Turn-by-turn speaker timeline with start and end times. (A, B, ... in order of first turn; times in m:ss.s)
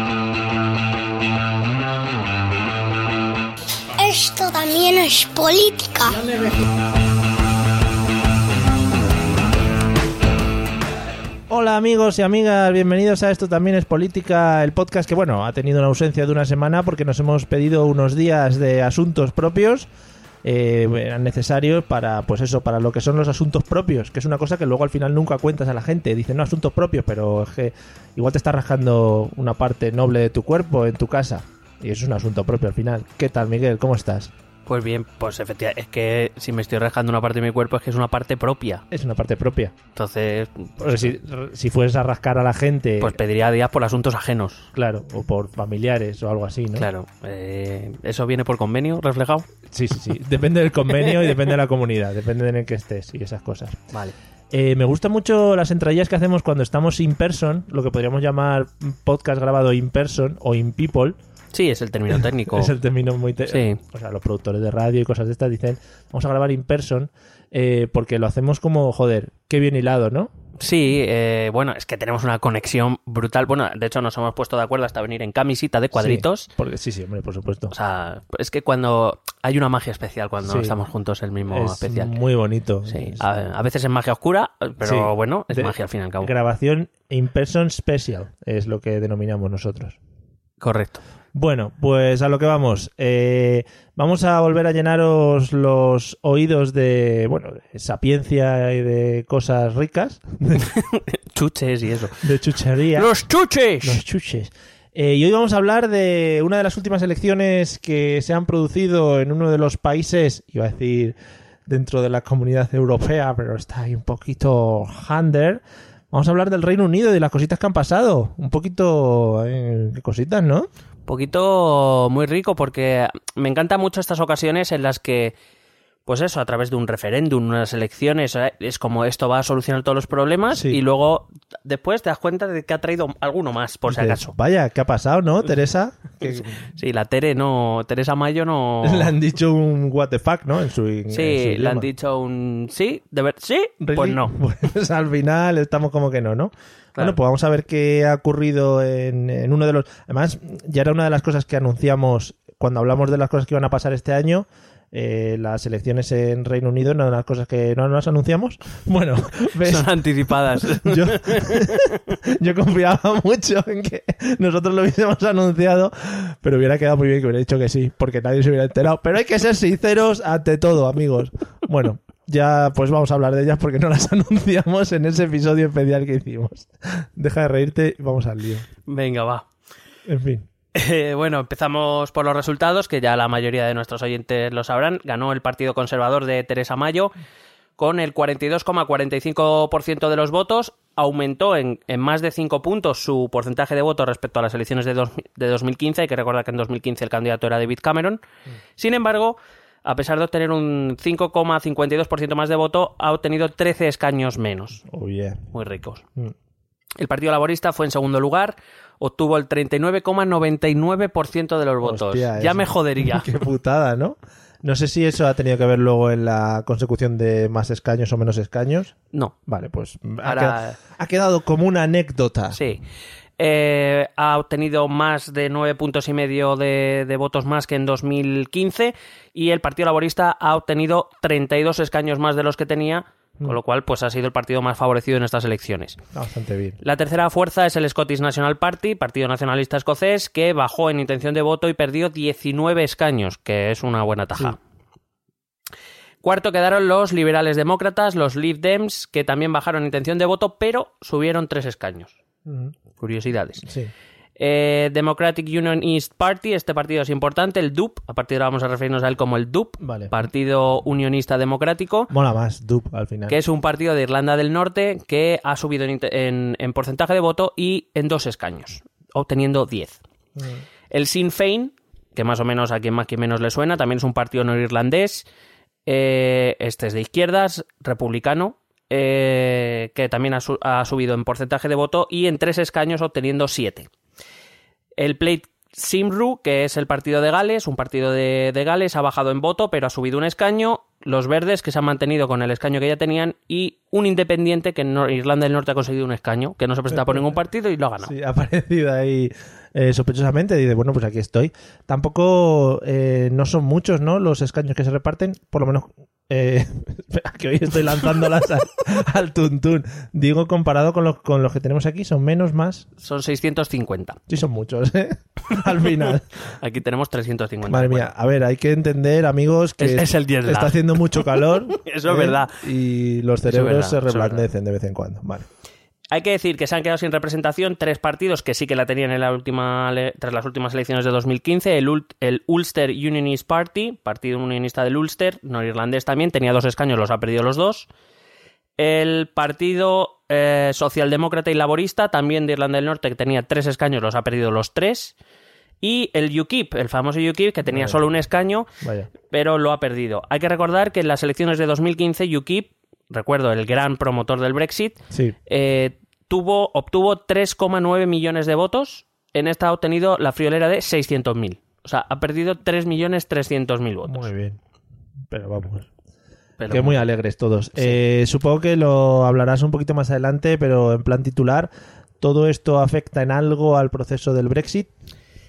0:04.0-0:06.3 A
0:11.5-0:19.9 B
0:20.4-0:34.3 B
0:34.6-0:38.8 C
0:38.9-0:39.7 B
0:39.9-0:41.1 C
0:40.8-0:43.2 B
0:43.0-0:44.7 C
0:44.7-0:46.9 B
0:46.7-0:49.5 C
0:49.7-0:53.8 B
0:54.5-1:01.2 B
1:01.5-1:02.7 C
1:02.5-1:10.3 B
1:03.5-1:03.8 C
1:10.6-1:16.5 C
1:15.9-1:17.7 B
1:17.7-1:22.1 C
1:20.4-1:20.7 B
1:21.5-1:23.2 B
1:22.9-1:26.3 C
1:24.8-1:30.0 B
1:30.6-1:31.0 C
1:31.3-1:40.7 B
1:40.7-1:42.2 C
1:42.2-1:43.1 B
1:42.9-1:44.0 C
1:43.8-1:51.2 B
1:51.7-2:00.7 B
2:01.1-2:05.3 C
2:06.0-2:14.3 C
2:10.5-2:10.8 B
2:13.9-2:16.7 B
2:16.8-2:19.1 C
2:18.8-2:21.8 B
2:21.1-2:24.3 C
2:23.8-2:40.0 B
2:39.6-2:42.1 C
2:40.6-2:58.6 B
2:58.9-2:59.5 C
3:00.1-3:00.5 B
3:00.7-3:07.1 C
3:07.8-3:18.2 C
3:18.8-3:24.8 C
3:24.8-3:25.4 B
3:25.5-3:26.0 C
3:27.0-3:33.3 C
3:31.8-3:38.9 B
3:39.4-3:42.6 B
3:40.2-3:40.8 C
3:42.5-3:42.8 C
3:43.4-3:56.0 C
3:56.1-3:56.8 B
3:56.8-4:04.6 C
4:06.2-4:12.1 C
4:12.4-4:12.7 B
4:13.0-4:13.6 C
4:13.6-4:13.9 B
4:14.4-4:22.1 C
4:19.8-4:20.1 B
4:22.1-4:23.4 B
4:23.3-4:30.0 C
4:30.4-4:30.6 B
4:30.9-4:35.2 C
4:35.8-4:43.9 C
4:45.0-4:58.1 C
4:56.9-4:57.3 B
4:58.0-5:12.9 B
5:13.0-5:14.2 C
5:14.3-5:16.3 B
5:16.6-5:18.0 C
5:17.7-5:25.5 B
5:19.8-5:22.5 C
5:23.4-5:24.4 C
5:26.1-5:37.9 C
5:38.8-5:45.1 C
5:45.8-5:48.7 C
5:47.7-5:48.0 B
5:48.8-5:49.1 B
5:49.3-6:04.3 C
6:04.1-6:04.6 B
6:05.3-6:05.9 B
6:06.6-6:07.0 C
6:06.7-6:14.9 B